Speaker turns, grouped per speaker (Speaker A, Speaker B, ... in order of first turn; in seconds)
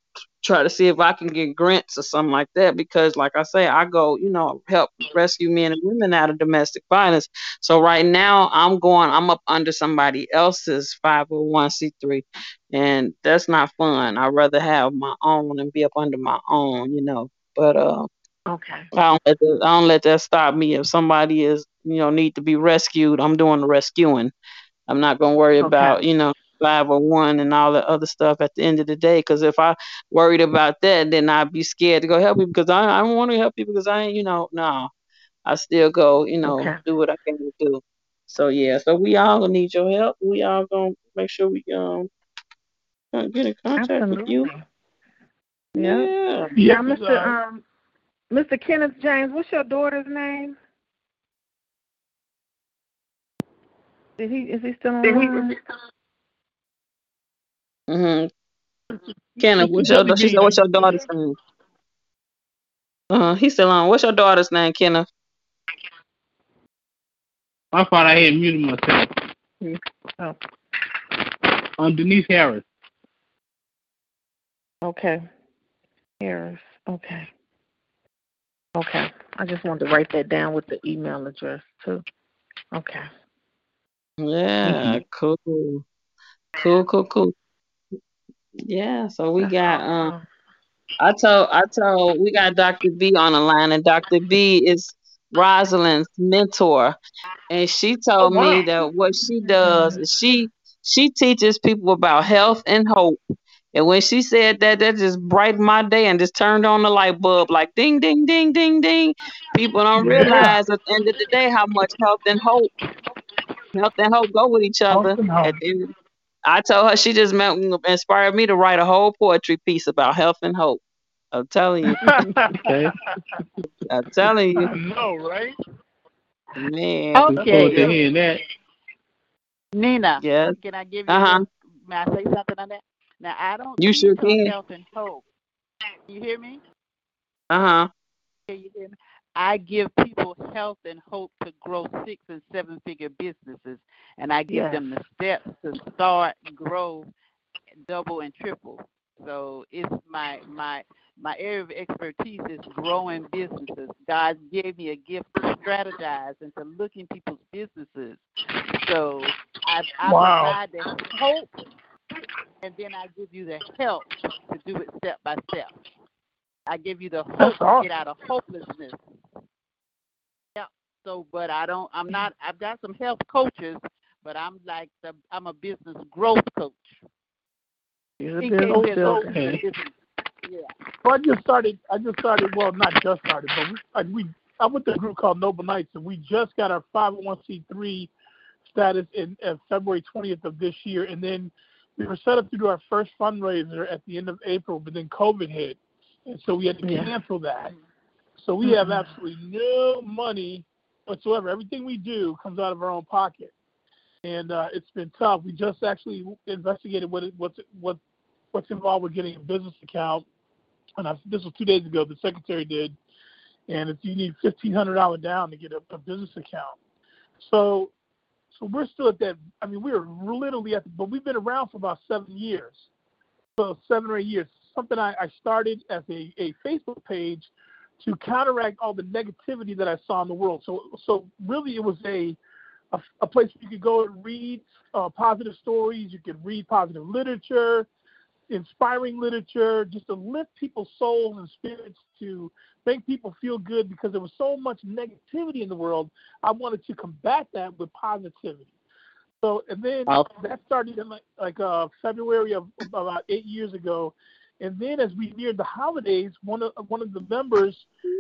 Speaker A: 0.4-18.1, 18.9-24.3, 24.9-34.9, 35.4-42.1, 43.1-44.5, 45.7-46.5, 57.9-58.3, 59.4-61.4, 63.1-65.1, 84.2-85.8, 86.6-87.3, 88.7-90.1, 91.0-97.0, 97.5-103.2, 103.7-112.7, 113.7-115.9, 116.4-120.8, 121.3-122.1, 123.9-124.7, 126.6-127.8, 130.2-130.6, 131.1-131.4, 133.8-134.5, 137.5-137.9
Speaker B: 18.5-18.9, 25.6-26.0, 36.4-36.8, 43.8-44.6, 45.8-46.1, 46.6-47.6, 48.3-50.5, 54.2-55.5, 69.6-70.4, 74.8-75.3, 76.2-77.3, 78.8-82.0, 82.7-83.1, 89.4-90.2, 98.2-98.7, 99.6-100.0, 144.5-144.9, 178.2-179.3, 196.8-197.1, 198.6-199.1
Speaker C: 46.5-47.3, 55.0-55.3, 59.4-60.7, 110.0-110.6, 114.9-115.6, 122.0-122.9, 124.5-125.5, 160.1-160.6, 167.4-167.9, 178.7-179.3, 181.0-188.1, 188.7-197.7, 198.3-203.5, 204.2-208.0, 208.5-210.2, 211.0-212.9, 213.7-216.8, 217.4-217.9, 218.5-222.8, 223.6-227.5, 228.0-232.4, 232.9-237.9, 238.5-248.7, 249.4-257.9
Speaker D: 67.7-69.1, 71.8-72.6, 84.7-85.0, 122.6-122.9, 127.3-128.4, 179.3-179.6
Speaker E: 127.1-128.0, 129.7-135.2, 136.1-136.6, 138.5-147.1, 147.8-158.2, 158.8-161.5, 162.6-165.7, 166.7-169.0, 170.6-177.0, 178.4-179.9, 180.4-180.7, 250.1-250.3